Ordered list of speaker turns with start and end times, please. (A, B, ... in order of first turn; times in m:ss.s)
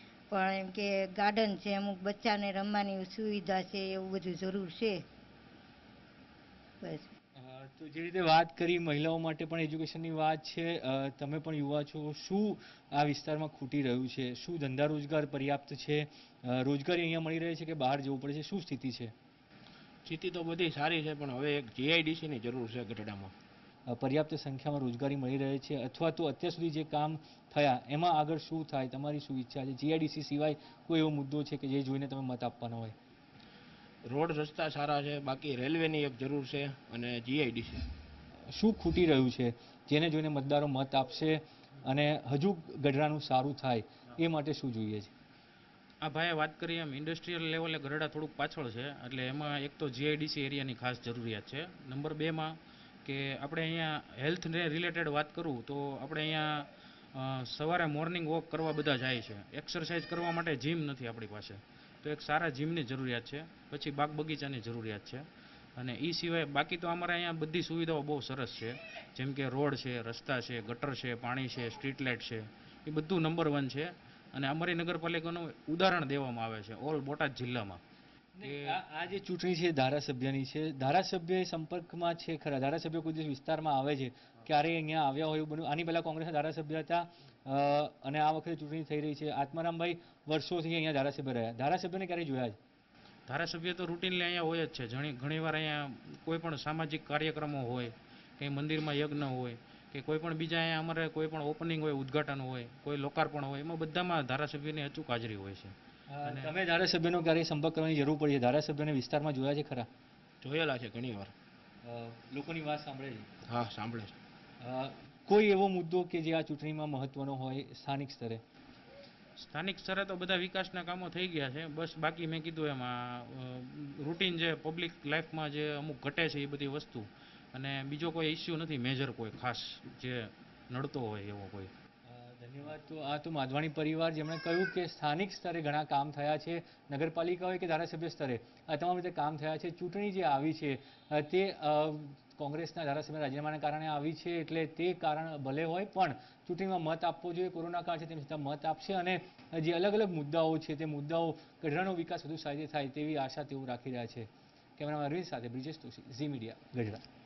0:00.3-0:05.0 A
0:06.8-0:07.1 A
0:07.4-0:19.1 B
0:20.0-0:23.3 C
0:23.9-0:33.0 B
0:34.0-0:37.9 C
0:38.5-0:45.1 B
0:46.0-1:05.2 D
1:05.8-1:17.8 D
1:18.4-1:32.6 B
1:18.4-1:18.8 D
1:33.3-1:45.7 D
1:46.1-1:49.9 B
1:46.2-1:46.5 D
1:50.4-1:51.3 C
1:51.8-1:53.3 B
1:53.5-1:54.2 C
1:54.6-1:58.4 B
1:59.4-2:11.7 D
2:12.1-2:37.0 B